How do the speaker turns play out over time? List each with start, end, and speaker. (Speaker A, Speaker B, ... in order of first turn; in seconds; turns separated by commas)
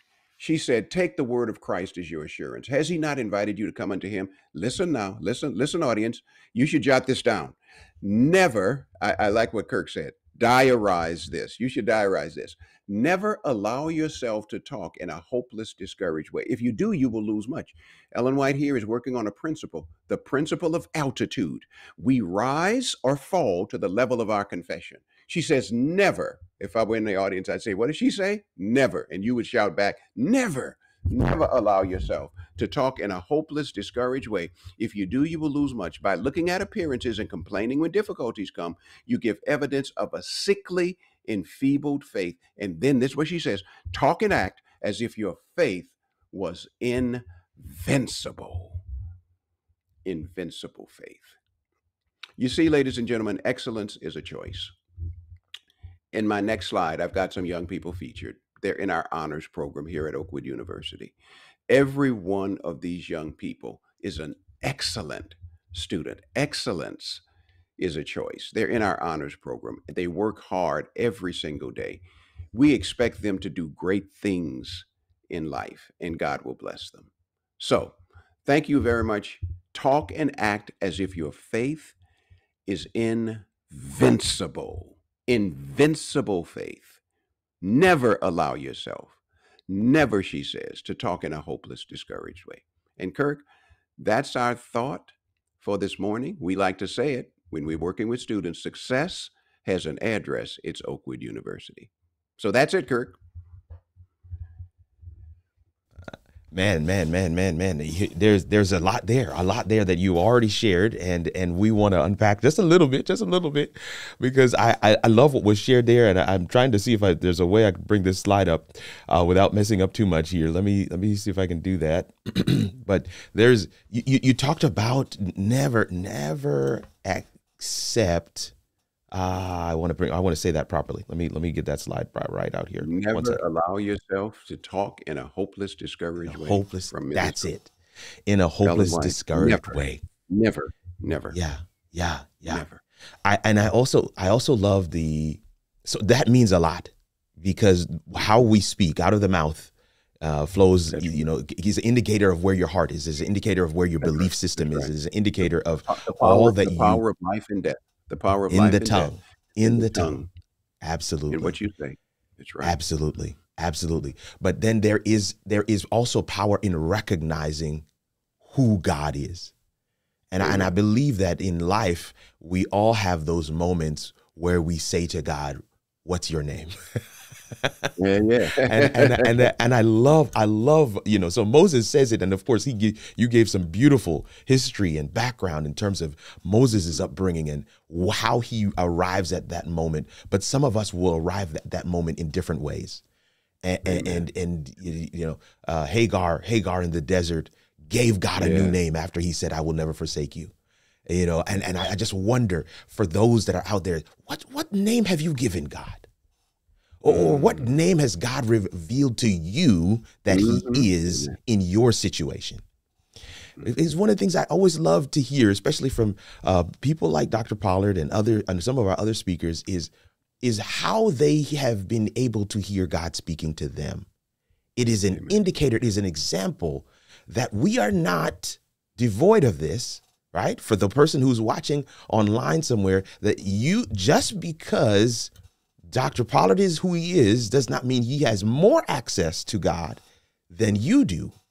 Speaker A: 0.4-48.8, Speaker A: 50.0-51.4, Speaker A: 52.4-54.7, Speaker A: 56.1-61.1, Speaker A: 61.7-67.2, Speaker A: 67.8-72.0, Speaker A: 72.5-82.0, Speaker A: 82.7-87.0, Speaker A: 87.6-93.4, Speaker A: 94.0-103.2, Speaker B: 106.1-128.5, Speaker B: 129.1-133.4, Speaker A: 132.8-137.5, Speaker B: 136.2-137.7, Speaker B: 138.3-140.0, Speaker A: 138.6-141.4, Speaker B: 141.3-142.6, Speaker A: 142.5-142.8, Speaker B: 143.2-149.7, Speaker B: 150.2-157.0, Speaker A: 150.9-151.2, Speaker A: 154.0-154.9, Speaker A: 155.9-160.3, Speaker B: 158.5-160.2, Speaker B: 160.8-161.5, Speaker A: 161.3-162.8, Speaker B: 162.6-167.8, Speaker B: 168.4-169.5, Speaker B: 170.3-176.7, Speaker A: 170.4-170.7, Speaker B: 177.5-177.9, Speaker A: 178.0-179.5, Speaker B: 178.6-193.0, Speaker B: 193.6-200.5, Speaker A: 193.8-194.2, Speaker A: 198.4-198.8, Speaker B: 201.1-206.1, Speaker B: 207.0-212.6, Speaker A: 207.1-207.7, Speaker A: 210.3-211.3, Speaker B: 213.6-224.1, Speaker B: 224.8-235.3, Speaker A: 225.1-225.3, Speaker B: 235.9-241.3